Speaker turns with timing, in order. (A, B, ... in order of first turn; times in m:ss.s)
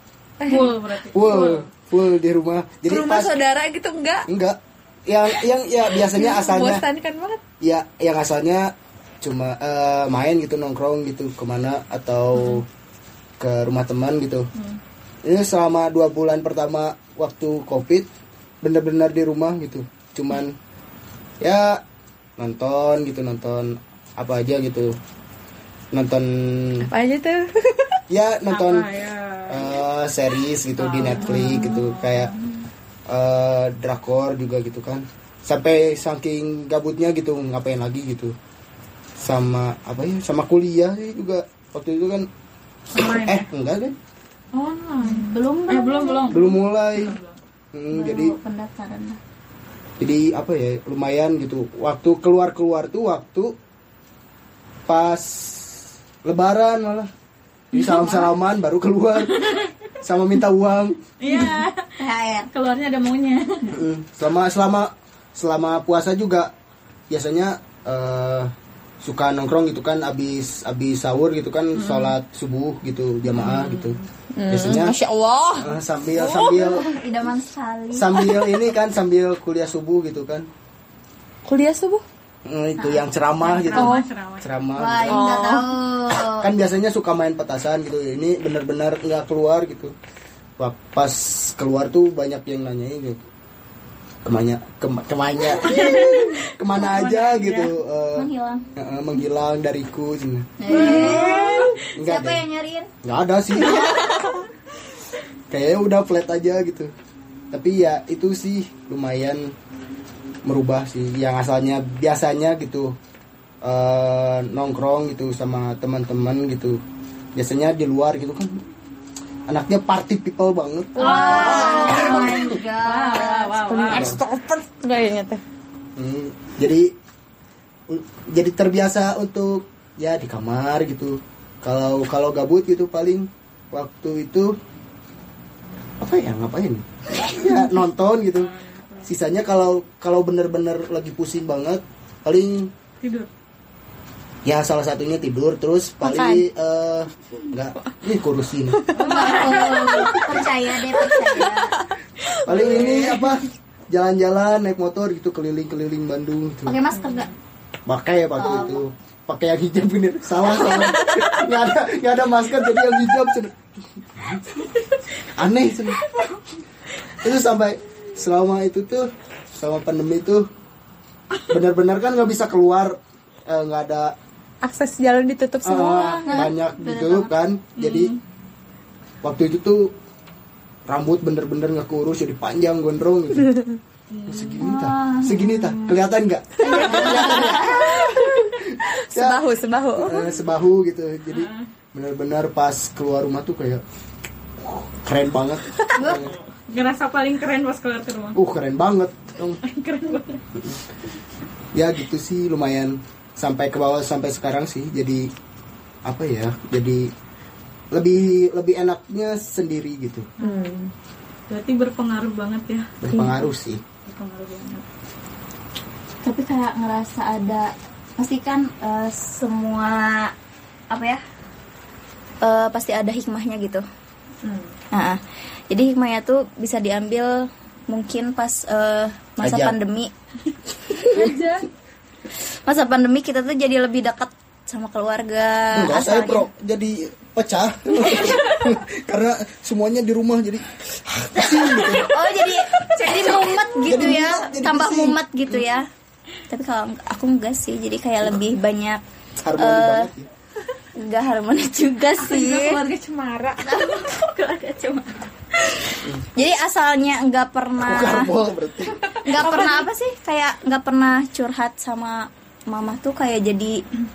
0:00.4-0:00.8 A
0:00.4-0:01.7 B
0:01.1-0:03.3 C
0:02.8-0:04.3 A
0:04.3-0:06.8 C
0:05.9-0:07.4 A
0:07.6-0:12.7 C
0:13.4-0:14.5 C
0:15.2-0:18.1 C
0:18.6-0:20.6 C
0:21.4-0:21.8 C
0:22.4-0:25.0 C
0:25.9-0:26.9 C
0:26.8-0:28.0 A
0:28.1-0:28.9 C
0:28.5-0:29.8 B
0:29.5-0:32.3 C
0:30.8-0:32.3 B
0:31.2-0:31.6 A
0:33.1-0:38.3 C
0:39.2-0:42.3 C
0:43.0-0:43.4 B
0:43.0-0:44.0 C
0:44.6-0:47.4 B
0:45.0-0:46.4 D
0:46.3-0:47.2 C
0:47.7-0:48.3 C
0:47.9-0:49.2 D
0:50.0-0:53.5 C
0:54.9-0:57.1 C
0:57.7-1:01.0 C
0:57.8-0:58.2 B
0:59.3-0:59.7 B
1:01.2-1:01.9 B
1:02.0-1:02.5 D
1:02.5-1:03.8 B
1:03.7-1:06.5 C
1:07.1-1:14.0 C
1:13.4-1:14.0 B
1:14.3-1:16.7 A
1:14.5-1:15.0 C
1:15.6-1:16.8 C
1:16.5-1:18.2 D
1:17.9-1:20.5 C
1:21.4-1:22.0 A
1:22.4-1:25.4 C
1:22.8-1:23.0 D
1:23.4-1:24.5 B
1:23.7-1:24.0 A
1:24.8-1:26.5 D
1:25.1-1:25.7 A
1:26.1-1:29.9 C
1:30.6-1:33.2 C
1:34.2-1:40.5 C
1:35.6-1:37.7 B
1:38.1-1:38.6 D
1:40.6-1:42.9 D
1:40.7-1:41.8 B
1:40.7-1:41.6 A
1:41.9-1:42.4 C
1:43.0-1:44.3 C
1:45.5-1:46.9 C
1:47.5-1:49.5 C
1:50.4-1:53.0 C
1:53.6-1:56.8 C
1:57.4-1:58.6 C
1:59.5-2:02.5 C
2:01.0-2:03.7 D
2:01.0-2:04.1 B
2:01.0-2:02.3 A
2:03.6-2:05.4 A
2:03.9-2:04.2 C
2:06.0-2:07.0 C
2:07.9-2:14.6 C
2:16.0-2:18.5 C
2:18.4-2:19.1 B
2:19.0-2:22.7 C
2:23.0-2:23.3 B
2:24.4-2:28.8 C
2:26.0-2:26.4 A
2:28.9-2:30.3 A
2:28.9-2:31.8 D
2:29.0-2:30.3 B
2:32.3-2:33.2 B
2:32.4-2:36.8 C
2:32.5-2:32.9 A
2:36.6-2:37.3 D
2:37.8-2:44.4 C
2:38.4-2:38.8 D
2:45.4-2:46.0 C
2:47.2-2:50.5 C
2:51.5-2:54.2 C
2:54.6-2:56.3 A
2:55.6-2:58.1 C
2:56.0-2:57.3 D
2:57.8-2:58.2 B
2:59.2-2:59.9 C
3:00.9-3:03.5 C
3:04.2-3:09.4 C
3:04.6-3:06.0 D
3:06.6-3:08.0 D
3:06.8-3:10.3 A
3:06.8-3:07.4 B
3:09.9-3:13.8 C
3:11.3-3:11.7 B
3:14.6-3:16.3 C
3:15.9-3:16.2 D
3:16.1-3:18.4 B
3:18.3-3:19.6 C
3:19.6-3:20.4 B
3:21.7-3:25.3 C
3:26.0-3:27.1 C
3:27.9-3:30.3 C
3:30.4-3:30.8 B
3:30.4-3:30.9 A
3:31.5-3:33.3 B
3:33.0-3:33.8 C
3:34.0-3:34.8 B
3:36.2-3:40.3 D
3:40.9-3:41.2 D
3:42.4-3:43.8 D
3:44.4-3:44.7 A
3:44.9-3:50.1 D
3:49.4-3:49.8 C
3:51.0-3:51.3 D
3:51.1-3:51.6 A
3:52.6-3:56.5 D
3:55.7-4:02.3 C
4:01.7-4:05.9 D
4:03.8-4:05.2 C
4:06.5-4:09.0 D
4:09.4-4:10.3 C
4:09.6-4:10.1 D
4:11.0-4:12.8 D
4:12.2-4:13.9 A
4:13.6-4:15.1 D
4:15.7-4:18.3 D
4:17.8-4:19.0 C
4:19.2-4:23.8 D
4:19.5-4:19.7 A